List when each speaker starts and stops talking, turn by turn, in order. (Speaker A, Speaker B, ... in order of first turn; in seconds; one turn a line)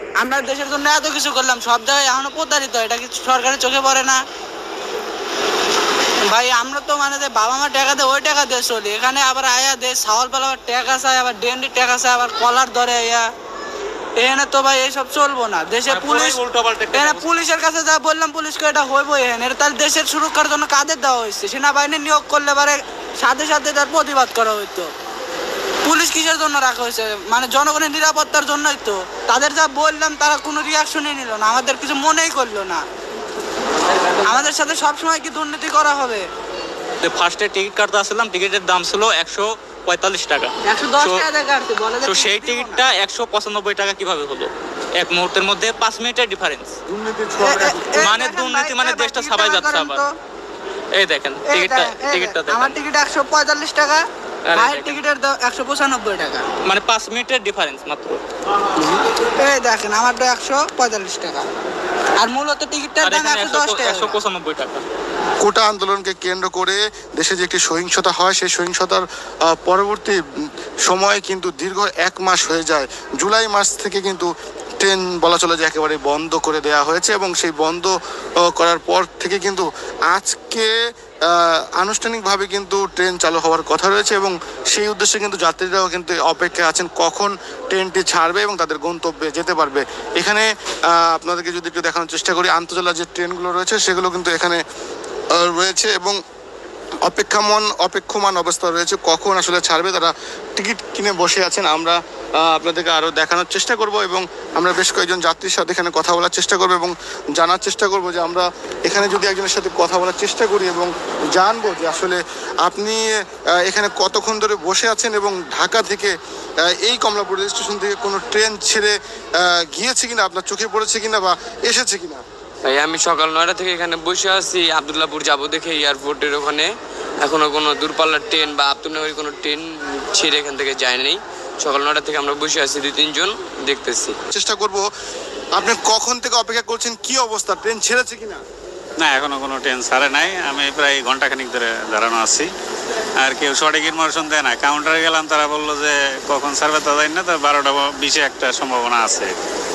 Speaker A: 0.2-4.2
Speaker A: 6.2-13.3
Speaker A: 14.2-24.9
Speaker B: 16.6-16.8
Speaker A: 25.8-32.8
Speaker A: 34.2-36.3
Speaker B: 37.0-41.3
Speaker A: 40.6-42.8
Speaker B: 42.0-46.8
Speaker C: 46.9-48.0
Speaker A: 47.4-50.1
Speaker B: 48.0-50.0
Speaker B: 50.9-52.8
Speaker A: 51.5-56.5
Speaker B: 54.5-55.0
Speaker B: 56.6-58.2
Speaker A: 59.4-61.5
Speaker A: 62.2-64.2
Speaker B: 63.0-64.8
Speaker C: 65.4-70.2
Speaker C: 70.8-80.7
Speaker C: 81.3-94.6
Speaker C: 95.3-96.2
Speaker C: 97.0-116.1
Speaker C: 116.7-122.2
Speaker D: 122.6-126.7
Speaker D: 127.2-134.2
Speaker C: 134.3-134.9
Speaker C: 135.6-138.4
Speaker E: 139.0-142.5
Speaker E: 143.2-149.3